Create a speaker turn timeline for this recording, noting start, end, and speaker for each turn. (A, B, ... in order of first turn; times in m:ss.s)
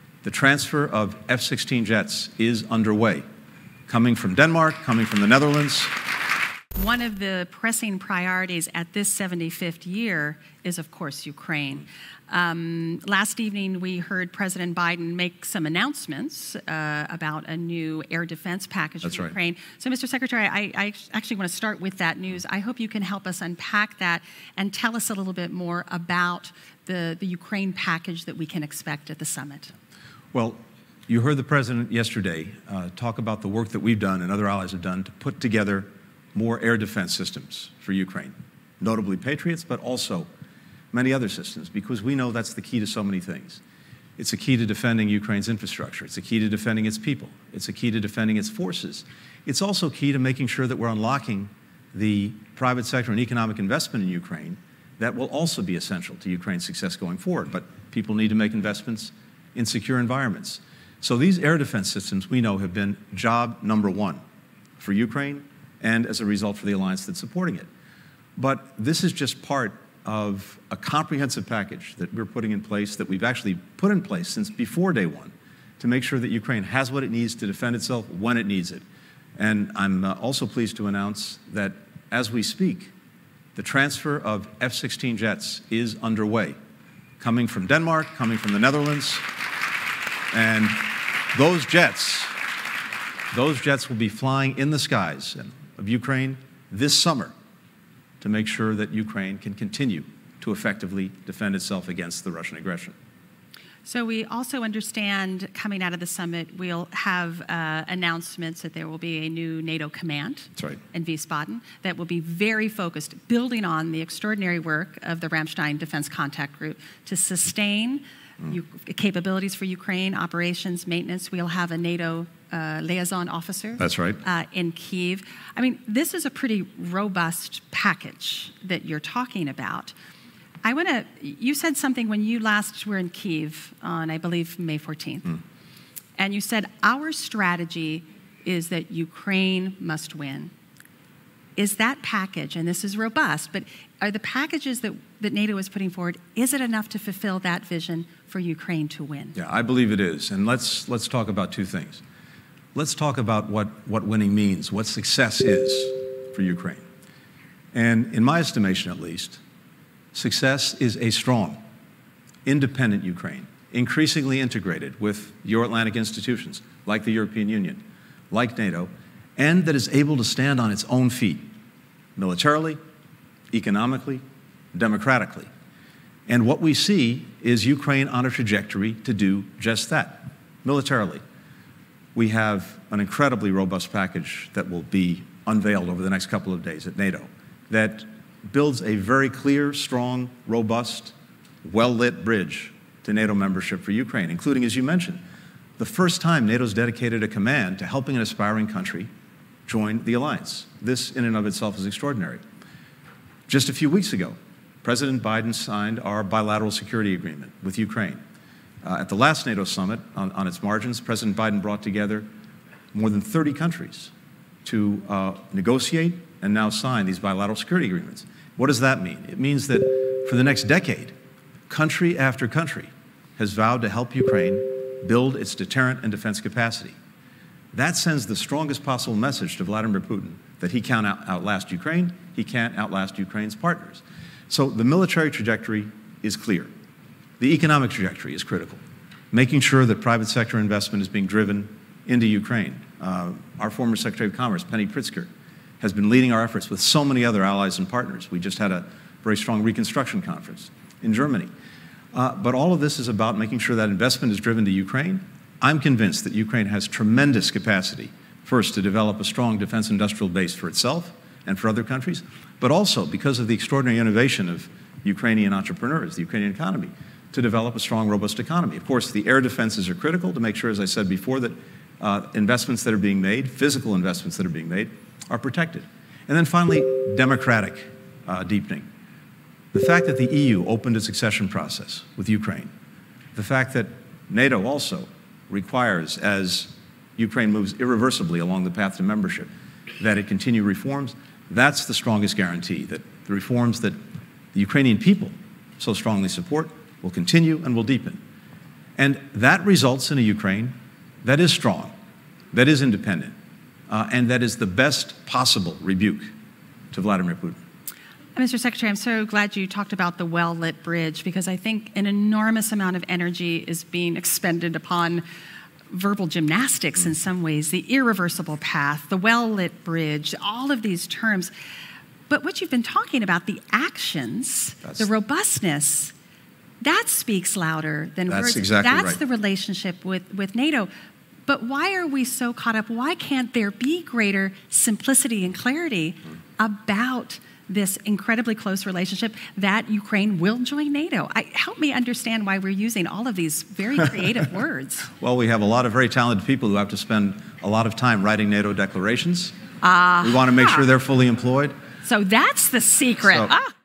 0:00.2-0:03.2 A
0:03.9-0:05.9 A
0:06.7-0:29.7 B
0:19.0-0:19.3 A
0:30.3-0:40.3 A
0:40.9-0:43.6 A
0:44.2-1:04.2 A
1:04.8-1:07.7 A
1:08.4-1:18.8 A
1:19.4-1:22.9 A
1:23.6-1:26.6 A
1:27.2-1:29.2 A
1:30.3-1:32.3 A
1:33.3-1:37.3 A
1:38.2-1:42.9 A
1:43.8-2:09.9 B
2:03.8-2:04.2 A
2:10.6-2:15.4 B
2:16.2-2:20.5 B
2:21.6-2:29.4 B
2:29.3-2:32.0 A
2:32.7-2:36.8 A
2:37.7-2:39.4 A
2:40.1-2:41.6 A
2:42.4-2:51.5 A
2:52.2-2:52.8 A
2:53.5-2:54.2 A
2:54.7-2:55.5 A
2:56.3-3:01.2 A
3:02.1-3:15.2 A
3:15.8-3:19.1 A
3:19.7-3:22.4 A
3:23.5-3:28.2 A
3:28.8-3:32.3 A
3:32.9-3:34.1 A
3:34.6-3:41.1 A
3:41.7-3:46.9 A
3:47.7-3:56.7 A
3:57.4-3:58.8 A
3:59.3-4:05.3 A
4:05.8-4:11.5 A
4:12.1-4:38.9 A
4:39.7-4:42.7 A
4:43.3-4:54.0 A
4:54.5-4:58.2 A
4:59.0-5:01.9 A
5:02.5-5:03.3 A
5:03.9-5:06.3 A
5:06.9-5:07.6 A
5:08.3-5:15.2 B
5:15.9-5:21.5 B
5:22.3-5:26.1 B
5:26.8-5:30.9 B
5:28.3-5:29.2 A
5:31.5-5:45.1 B
5:45.2-5:49.6 A
5:49.8-5:50.8 B
5:50.2-5:51.7 A
5:52.0-5:53.7 B